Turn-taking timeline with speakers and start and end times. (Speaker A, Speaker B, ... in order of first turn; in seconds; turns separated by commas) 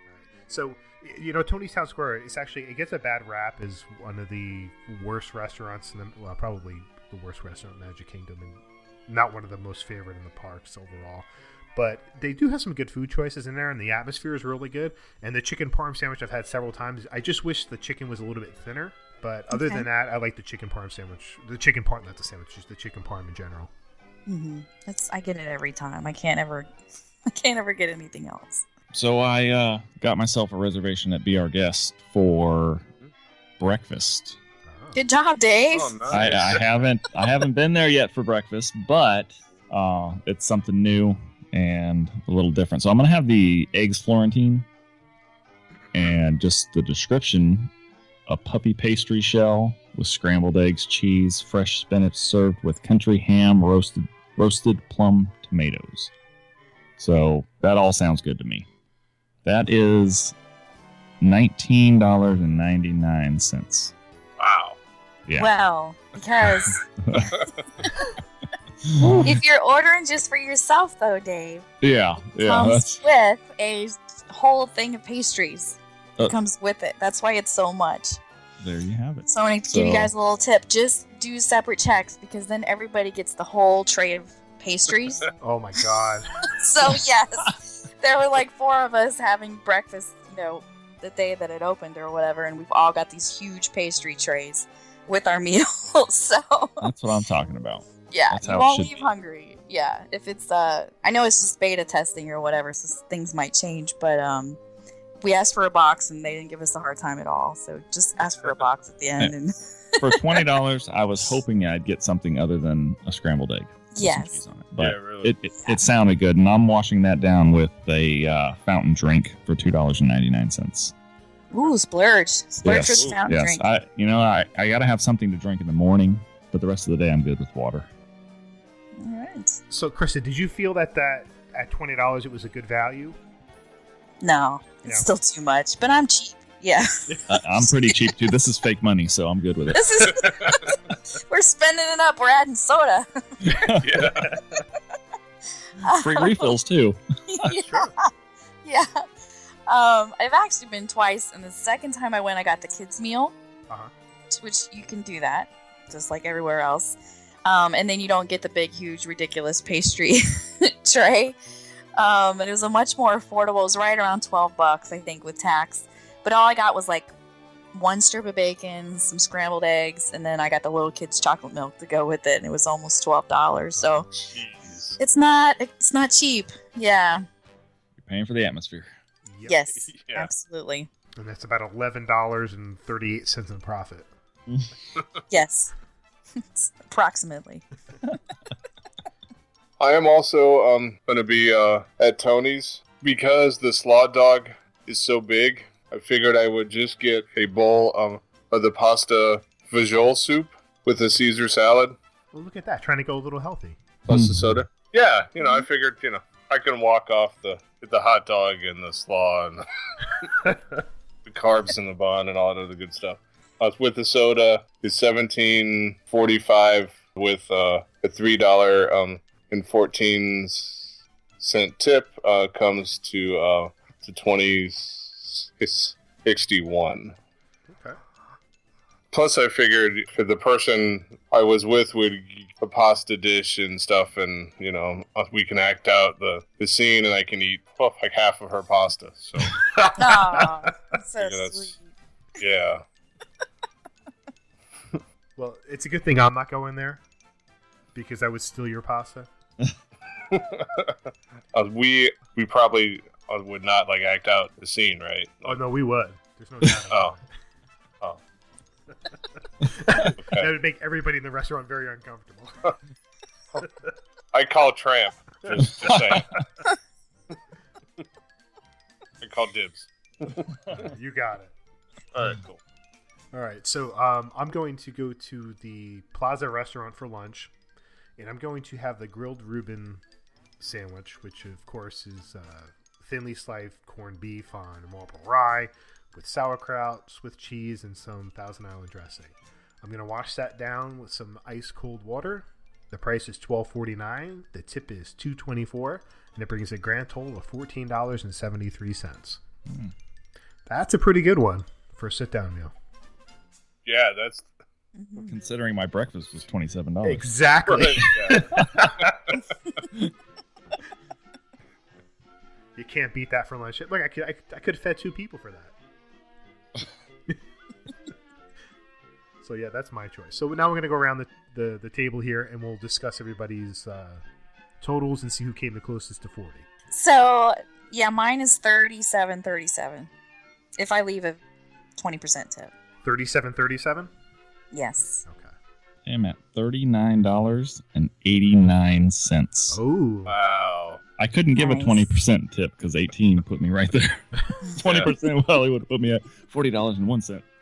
Speaker A: 0.1-23.7, Speaker B: 19.5-19.9, Speaker B: 24.3-26.7, Speaker B: 27.3-28.6, Speaker C: 28.9-32.9, Speaker C: 33.6-34.4, Speaker A: 34.6-35.0, Speaker B: 34.9-36.2, Speaker D: 35.7-36.6, Speaker C: 36.1-44.7, Speaker C: 45.9-47.7, Speaker C: 48.3-56.1, Speaker C: 57.0-58.7, Speaker C: 59.4-60.3, Speaker C: 61.2-63.9, Speaker D: 64.4-64.8, Speaker B: 65.4-66.8, Speaker C: 66.6-67.3, Speaker C: 68.8-69.4, Speaker B: 69.1-71.6, Speaker C: 71.8-73.0, Speaker B: 72.3-78.2, Speaker C: 78.6-80.1, Speaker B: 79.2-85.3, Speaker A: 85.4-86.5, Speaker B: 86.5-96.9, Speaker C: 96.8-99.0, Speaker B: 98.1-104.6, Speaker B: 105.2-110.0, Speaker C: 110.0-120.9, Speaker B: 113.9-114.4, Speaker D: 114.8-115.3, Speaker B: 121.5-123.6, Speaker C: 122.6-127.9, Speaker B: 129.0-129.6, Speaker A: 129.7-133.2, Speaker B: 134.2-138.0, Speaker C: 137.3-140.1, Speaker B: 139.7-140.7, Speaker D: 140.1-140.7, Speaker B: 141.3-143.1, Speaker C: 143.4-144.1, Speaker D: 143.8-144.3, Speaker A: 143.9-144.6, Speaker B: 145.8-146.5, Speaker C: 145.9-147.0, Speaker B: 147.3-148.1, Speaker A: 147.4-147.9, Speaker B: 148.6-149.1, Speaker B: 149.7-153.3, Speaker B: 154.3-161.4, Speaker B: 161.9-167.1, Speaker B: 167.7-174.1, Speaker A: 173.8-174.0, Speaker D: 174.3-175.0, Speaker B: 175.0-177.2, Speaker C: 177.9-178.9, Speaker A: 179.3-179.6, Speaker B: 179.4-180.9, Speaker D: 179.9-180.3, Speaker A: 181.2-184.1, Speaker B: 185.3-185.7, Speaker B: 186.5-187.6, Speaker D: 189.8-201.9, Speaker A: 202.3-203.8, Speaker C: 204.1-204.6, Speaker D: 204.1-209.6, Speaker D: 211.2-227.2, Speaker A: 227.7-228.0, Speaker D: 229.1-239.6, Speaker A: 239.5-240.7, Speaker B: 240.0-241.8, Speaker D: 241.2-241.7, Speaker D: 242.4-242.8, Speaker A: 245.4-247.0, Speaker A: 247.9-249.3, Speaker D: 250.3-250.9, Speaker D: 251.5-255.6, Speaker A: 255.4-257.2, Speaker D: 256.9-257.1, Speaker A: 259.6-262.7, Speaker D: 260.2-260.5, Speaker A: 263.6-263.9, Speaker D: 264.3-266.4, Speaker C: 265.8-266.2, Speaker D: 269.2-270.9, Speaker A: 270.8-271.5, Speaker D: 272.1-272.6, Speaker A: 273.3-277.5, Speaker A: 278.2-280.0, Speaker A: 280.6-299.4, Speaker C: 299.7-299.9, Speaker A: 300.7-302.7, Speaker D: 303.9-304.5, Speaker B: 304.9-305.4, Speaker C: 305.2-307.8, Speaker A: 307.0-309.4, Speaker D: 307.6-309.0, Speaker A: 312.8-315.7, Speaker A: 319.4-324.2, Speaker A: 324.8-326.7, Speaker B: 326.9-330.1, Speaker B: 330.8-331.4, Speaker B: 332.0-332.7, Speaker A: 333.0-334.1, Speaker B: 334.7-335.2, Speaker A: 335.3-335.5, Speaker C: 336.1-339.8, Speaker A: 339.7-340.4, Speaker D: 340.2-341.0, Speaker C: 341.2-347.4, Speaker B: 341.6-342.1, Speaker D: 344.8-345.1